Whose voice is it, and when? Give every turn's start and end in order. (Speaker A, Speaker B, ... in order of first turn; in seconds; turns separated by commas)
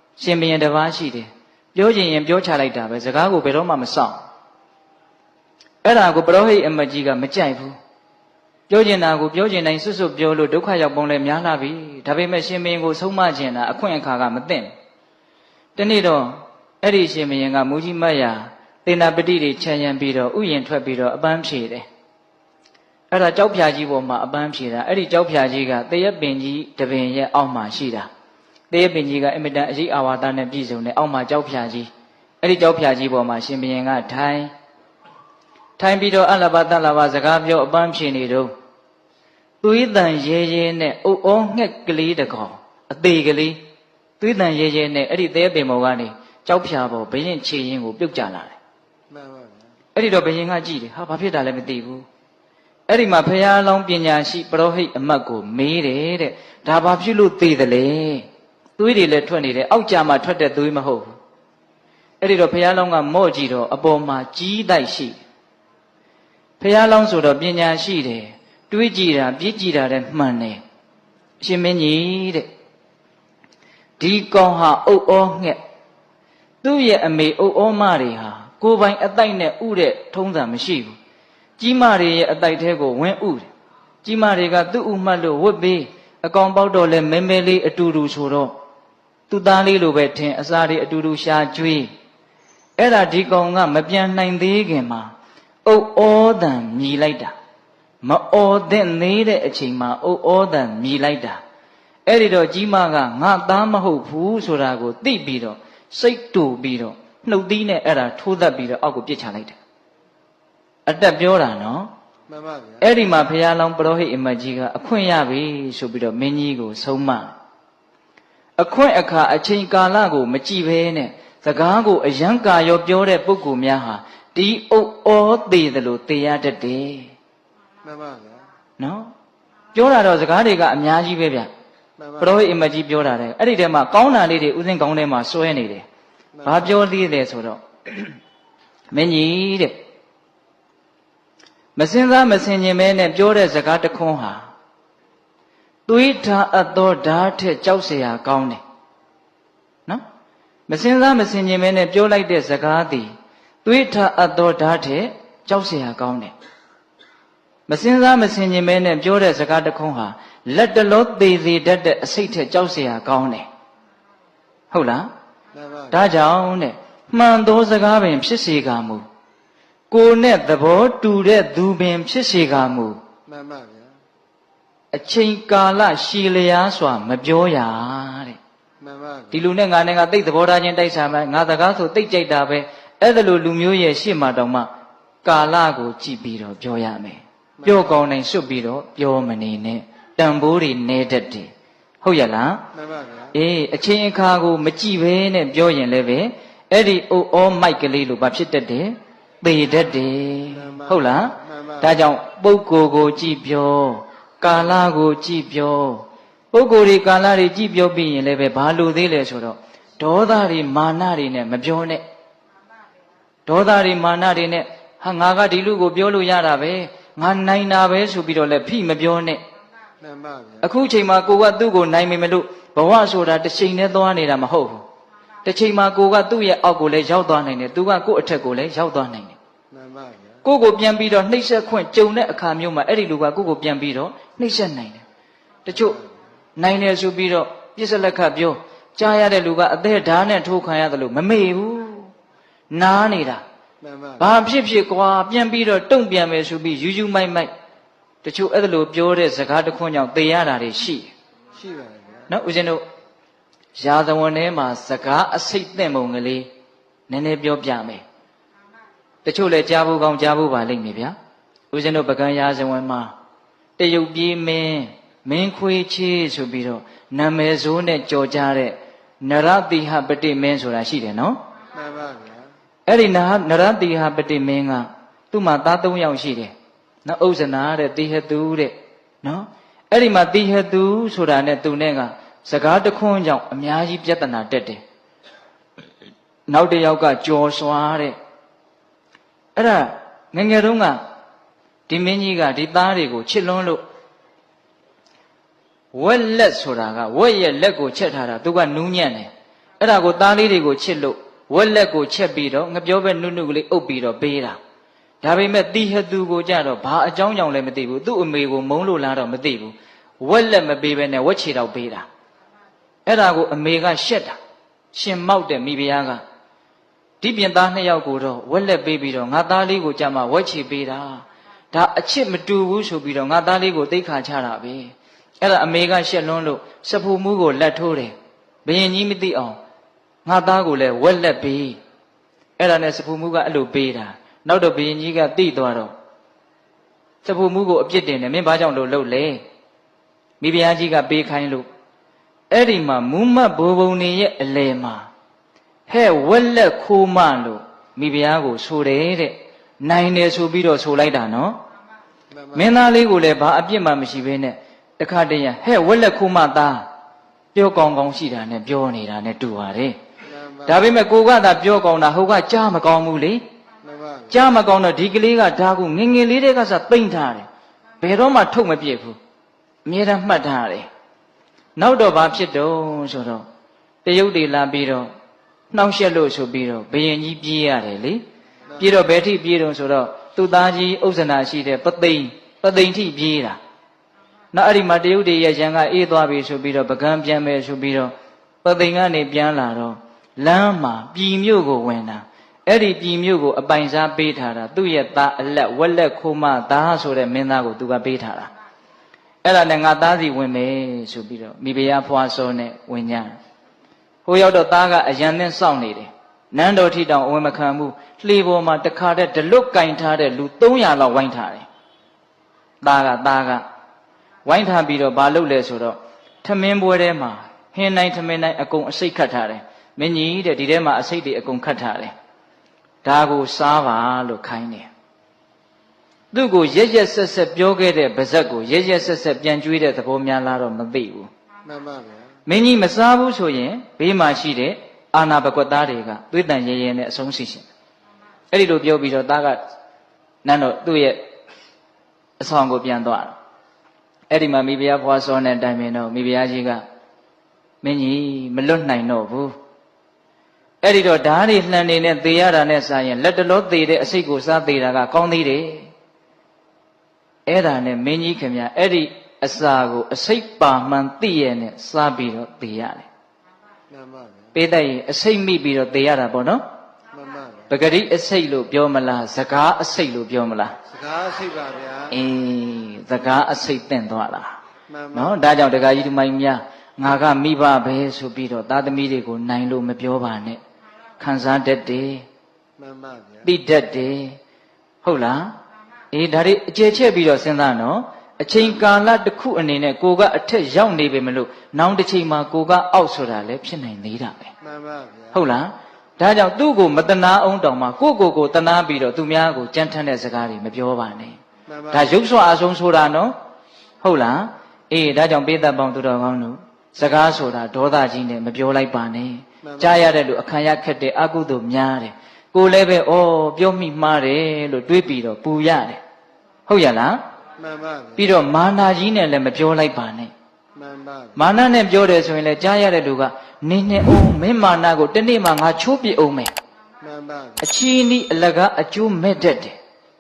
Speaker A: 0.2-4.2, Speaker A: 5.8-7.8, Speaker A: 8.7-14.7, Speaker A: 15.8-21.9, Speaker A: 23.1-28.1, Speaker A: 28.7-31.9, Speaker A: 32.4-34.5, Speaker A: 35.8-38.5, Speaker A: 39.6-43.6, Speaker A: 44.2-48.6, Speaker B: 49.1-49.6, Speaker A: 50.0-52.1, Speaker A: 52.9-61.1, Speaker A: 62.2-65.2, Speaker A: 66.6-70.6, Speaker A: 71.4-72.5, Speaker A: 74.0-75.6, Speaker A: 76.6-81.0, Speaker A: 81.6-83.5, Speaker A: 84.0-88.5, Speaker A: 89.3-91.9, Speaker A: 92.8-95.1, Speaker A: 95.7-97.3, Speaker A: 98.0-101.4, Speaker A: 102.1-109.6, Speaker A: 110.9-111.9, Speaker B: 112.3-112.8, Speaker A: 112.8-117.3, Speaker A: 118.6-127.1, Speaker B: 127.8-128.4, Speaker A: 128.8-129.1, Speaker A: 129.8-131.5, Speaker A: 132.2-135.8, Speaker A: 136.4-138.2, Speaker A: 138.9-139.8, Speaker A: 141.8-144.5, Speaker A: 145.9-148.6, Speaker A: 150.7-153.1, Speaker A: 153.6-156.3, Speaker A: 157.7-163.5, Speaker A: 164.7-165.1, Speaker B: 165.6-165.9, Speaker A: 165.9-169.0, Speaker A: 169.9-173.0, Speaker B: 173.3-173.9, Speaker A: 174.9-178.4, Speaker B: 178.8-179.3, Speaker A: 179.3-184.7, Speaker A: 185.2-191.5, Speaker A: 192.0-192.6, Speaker B: 192.8-193.3, Speaker A: 193.3-212.0, Speaker B: 200.7-201.8, Speaker A: 213.5-219.4, Speaker B: 220.0-220.6, Speaker A: 220.6-224.8, Speaker A: 225.4-229.4, Speaker B: 229.7-230.3, Speaker A: 230.4-235.0, Speaker A: 235.7-236.0, Speaker A: 236.6-242.1, Speaker A: 242.7-243.4, Speaker B: 243.8-244.2, Speaker A: 244.2-247.5, Speaker A: 248.2-251.1, Speaker B: 251.6-252.3, Speaker A: 252.3-252.8, Speaker A: 253.8-256.5, Speaker A: 257.1-258.0, Speaker A: 259.2-261.1, Speaker A: 261.7-263.1, Speaker A: 263.8-271.4, Speaker B: 271.7-272.4, Speaker A: 272.9-276.5, Speaker A: 277.1-284.8, Speaker A: 286.5-288.2, Speaker A: 289.6-291.0, Speaker A: 291.9-293.8, Speaker A: 295.9-299.3, Speaker A: 299.8-304.6, Speaker A: 305.2-312.1, Speaker A: 313.1-314.4, Speaker A: 314.9-316.2, Speaker A: 317.2-328.1, Speaker A: 328.6-329.6, Speaker A: 330.2-331.8, Speaker A: 332.6-335.9, Speaker A: 337.2-339.4, Speaker A: 340.4-341.7, Speaker A: 342.5-345.1, Speaker A: 345.9-351.6, Speaker A: 352.5-356.9, Speaker A: 357.5-360.0, Speaker B: 360.4-360.7, Speaker A: 360.6-363.4, Speaker B: 363.9-364.3, Speaker A: 364.3-367.5, Speaker A: 368.0-369.2, Speaker A: 369.9-370.9, Speaker A: 371.8-373.5, Speaker A: 374.1-375.1, Speaker A: 375.7-378.2, Speaker A: 378.8-383.6, Speaker A: 384.5-398.5, Speaker A: 399.4-403.4, Speaker A: 404.2-411.7, Speaker A: 412.8-413.6, Speaker A: 414.4-422.1, Speaker A: 423.0-424.9, Speaker A: 426.3-431.3, Speaker B: 431.7-432.3, Speaker A: 432.5-437.7, Speaker A: 438.5-439.6, Speaker A: 440.4-441.3, Speaker A: 442.4-443.4, Speaker A: 444.3-446.8, Speaker A: 447.8-449.6, Speaker A: 450.8-455.9, Speaker A: 457.5-463.1, Speaker B: 463.9-464.4, Speaker A: 464.5-466.6, Speaker B: 467.1-467.7, Speaker A: 467.7-470.8, Speaker B: 470.9-472.1, Speaker A: 472.1-474.6, Speaker B: 474.9-475.3, Speaker A: 475.1-480.6, Speaker A: 481.2-482.2, Speaker B: 482.8-483.4, Speaker A: 483.4-484.4, Speaker A: 485.0-485.5, Speaker A: 486.1-494.5, Speaker B: 494.6-495.3, Speaker A: 495.3-501.4, Speaker B: 501.7-502.1, Speaker A: 501.9-503.4, Speaker A: 504.0-516.0, Speaker A: 516.7-517.2, Speaker B: 517.6-518.2, Speaker A: 518.2-520.3, Speaker B: 520.8-521.4, Speaker A: 521.4-526.5, Speaker B: 527.0-527.6, Speaker A: 527.6-529.8